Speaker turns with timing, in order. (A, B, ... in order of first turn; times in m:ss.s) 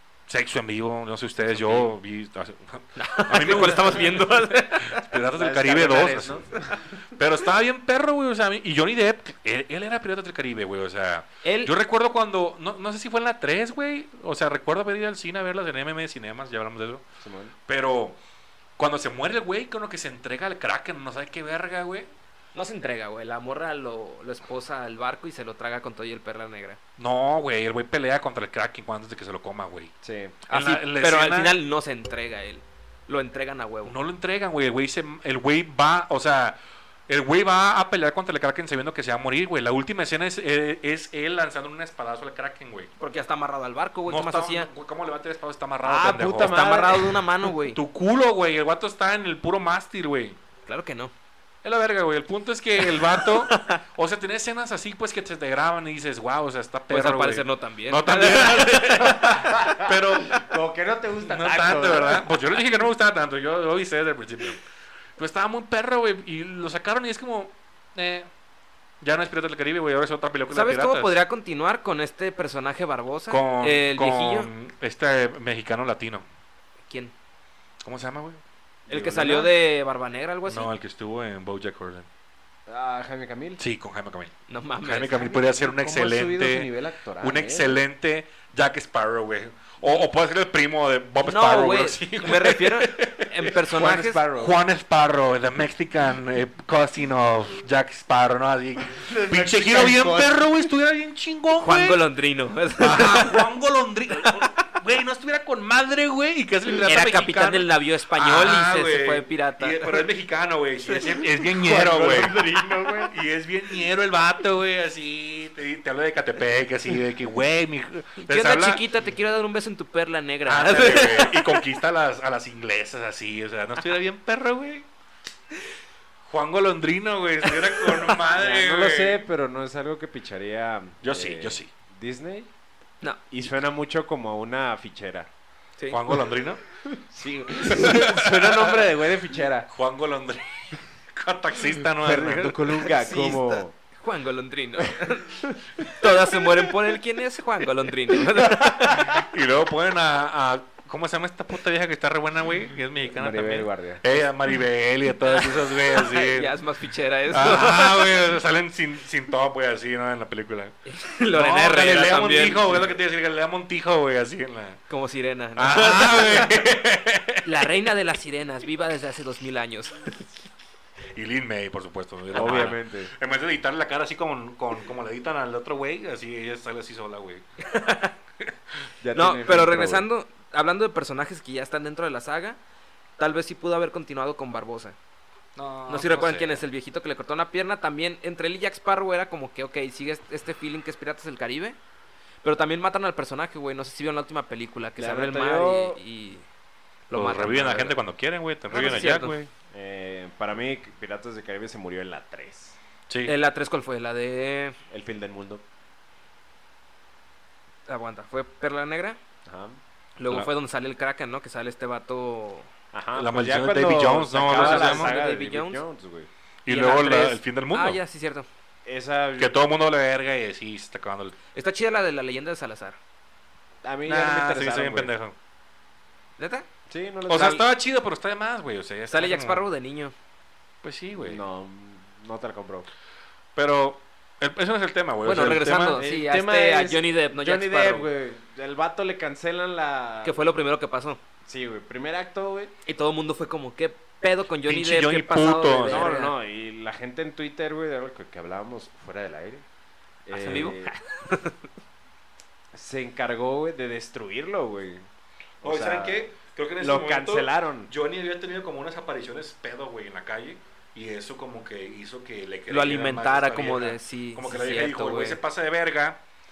0:00.3-0:06.5 A
0:01.5-0:01.9 B
0:03.0-0:05.0 B
0:05.3-0:07.0 C
0:07.1-0:17.1 A
0:11.4-0:11.7 B
0:17.2-0:17.6 C
0:17.7-0:18.2 A
0:18.8-0:22.1 A
0:22.6-0:26.8 B
0:27.0-0:29.9 A
0:30.0-0:30.4 C
0:30.5-0:31.6 A
0:30.5-0:34.0 B
0:33.9-0:42.9 A
0:43.0-0:44.7 B
0:44.1-0:46.6 A
0:45.8-0:47.3 C
0:46.4-0:47.8 B
0:47.7-0:50.4 A
0:50.7-0:51.1 B
0:51.6-1:00.5 A
0:52.8-0:53.8 B
0:56.9-0:59.5 B
0:58.9-1:02.3 C
1:01.3-1:04.6 A
1:05.2-1:08.3 A
1:09.0-1:11.1 A
1:10.5-1:14.5 B
1:13.3-1:16.2 A
1:17.8-1:18.4 A
1:18.9-1:19.5 C
1:18.9-1:20.7 B
1:20.5-1:22.1 A
1:22.7-1:23.6 C
1:23.6-1:33.6 A
1:24.5-1:25.4 B
1:25.2-1:27.8 C
1:31.2-1:34.2 B
1:33.7-1:34.6 C
1:34.3-1:42.0 A
1:38.9-1:40.4 C
1:41.6-1:43.4 B
1:42.8-1:52.4 A
1:46.8-1:50.1 B
1:50.9-1:51.5 B
1:51.6-1:53.1 C
1:53.1-1:58.8 A
1:58.2-2:01.6 B
2:00.5-2:04.9 A
2:06.3-2:09.2 A
2:07.4-2:08.2 B
2:08.3-2:12.5 C
2:11.0-2:11.7 A
2:13.3-2:15.3 C
2:15.9-2:16.6 A
2:16.8-2:19.7 C
2:17.6-2:18.9 A
2:19.7-2:22.9 A
2:22.0-2:23.8 C
2:22.9-2:29.2 B
2:25.4-2:25.9 C
2:28.4-2:29.2 C
2:29.1-2:36.5 A
2:33.1-2:34.0 C
2:35.3-2:38.1 B
2:37.3-2:40.8 A
2:40.9-2:42.8 B
2:41.3-2:44.8 A
2:44.9-2:46.5 B
2:45.6-2:47.5 A
2:47.4-2:50.2 B
2:51.1-2:57.4 A
2:52.3-2:52.7 B
2:52.3-2:53.1 C
2:57.6-2:58.2 B
2:59.0-3:00.1 C
2:59.1-3:02.6 B
3:03.2-3:05.0 B
3:05.6-3:06.6 A
3:05.9-3:11.8 B
3:12.4-3:16.4 B
3:15.0-3:16.0 C
3:17.1-3:18.0 B
3:17.1-3:19.4 A
3:18.7-3:19.4 B
3:18.7-3:22.8 C
3:23.1-3:23.4 A
3:23.3-3:24.8 B
3:24.9-3:25.6 C
3:27.9-3:29.2 B
3:29.4-3:29.8 C
3:30.2-3:32.7 B
3:32.9-3:36.3 C
3:33.2-3:35.1 A
3:34.5-3:35.8 B
3:36.6-3:38.0 A
3:36.7-3:38.5 B
3:38.8-3:39.6 C
3:39.4-3:41.4 A
3:41.6-3:43.0 B
3:43.8-3:45.1 C
3:44.1-3:45.4 A
3:46.4-3:46.7 B
3:46.9-3:47.7 C
3:47.3-3:49.7 A
3:49.1-3:50.1 B
3:50.8-3:51.4 A
3:51.2-3:52.9 C
3:53.6-3:56.0 A
3:55.2-3:58.1 B
3:56.0-4:00.4 C
4:00.2-4:01.2 B
4:01.4-4:02.7 C
4:02.8-4:06.4 B
4:04.7-4:06.1 A
4:05.9-4:09.6 C
4:10.3-4:10.9 C
4:10.3-4:11.6 B
4:12.7-4:15.1 C
4:15.6-4:16.3 C
4:15.6-4:26.2 A
4:16.8-4:17.9 C
4:22.7-4:25.4 B